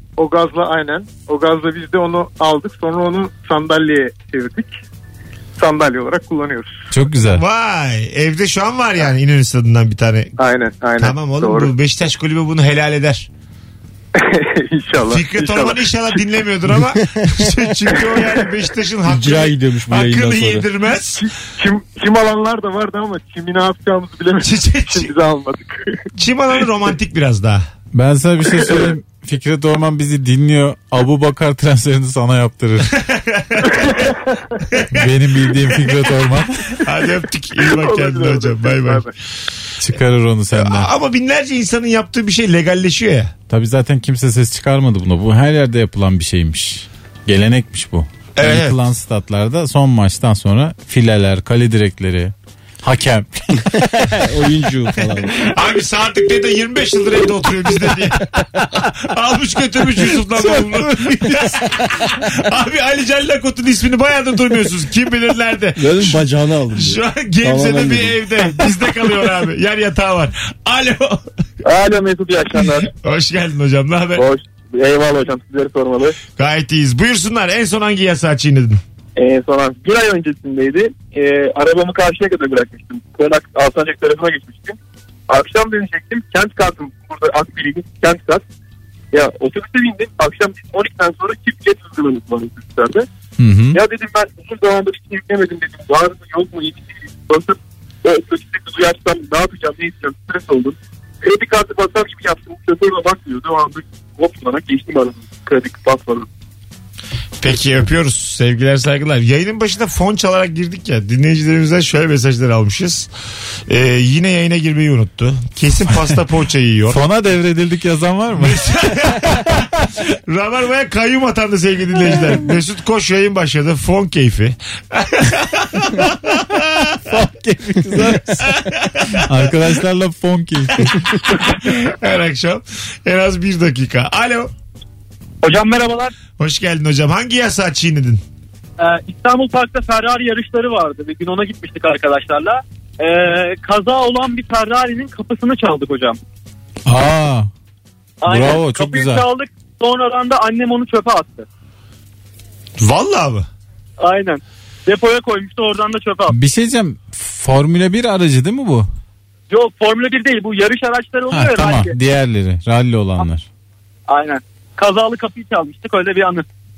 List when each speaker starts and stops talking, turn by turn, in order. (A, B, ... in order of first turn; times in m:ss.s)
0:00.2-0:04.7 A
0:05.6-0:06.8 A
0:06.9-0:07.4 B
0:07.3-0:10.3 C
0:10.4-0:11.7 A
0:11.0-0:13.3 C
0:14.1-0:16.5 A
0:15.1-0:21.3 C
0:17.9-0:18.5 A
0:19.0-0:20.7 D
0:21.0-0:26.1 A
0:24.4-0:25.1 C
0:26.2-0:27.6 C
0:27.9-0:33.0 B
0:28.6-0:29.0 A
0:32.9-0:34.0 C
0:33.8-0:34.1 A
0:34.7-0:35.1 C
0:34.9-0:36.8 B
0:36.7-0:39.1 C
0:37.5-0:39.1 A
0:39.8-0:40.9 B
0:40.5-0:43.3 C
0:43.5-0:54.2 B
0:48.4-0:48.8 C
0:53.7-0:55.5 D
0:55.3-1:11.2 C
1:00.5-1:01.6 B
1:05.8-1:08.2 D
1:11.6-1:12.9 E
1:12.9-1:14.2 C
1:14.2-1:16.2 E
1:16.4-1:18.8 C
1:19.2-1:24.8 E
1:25.3-1:28.4 E
1:29.1-1:33.1 E
1:33.4-1:33.8 B
1:33.7-1:46.3 E
1:47.4-1:53.1 C
1:53.7-1:57.0 C
1:56.9-1:58.7 B
1:58.4-2:06.9 C
2:06.0-2:11.5 B
2:08.4-2:09.5 C
2:10.8-2:14.5 C
2:15.4-2:16.1 E
2:16.4-2:18.2 C
2:18.8-2:26.2 E
2:26.8-2:27.5 B
2:28.2-2:31.4 E
2:28.2-2:29.2 B
2:32.8-2:33.5 C
2:34.0-2:36.3 E
2:36.3-2:38.9 B
2:39.5-2:41.9 E
2:41.3-2:43.4 B
2:44.1-2:46.4 E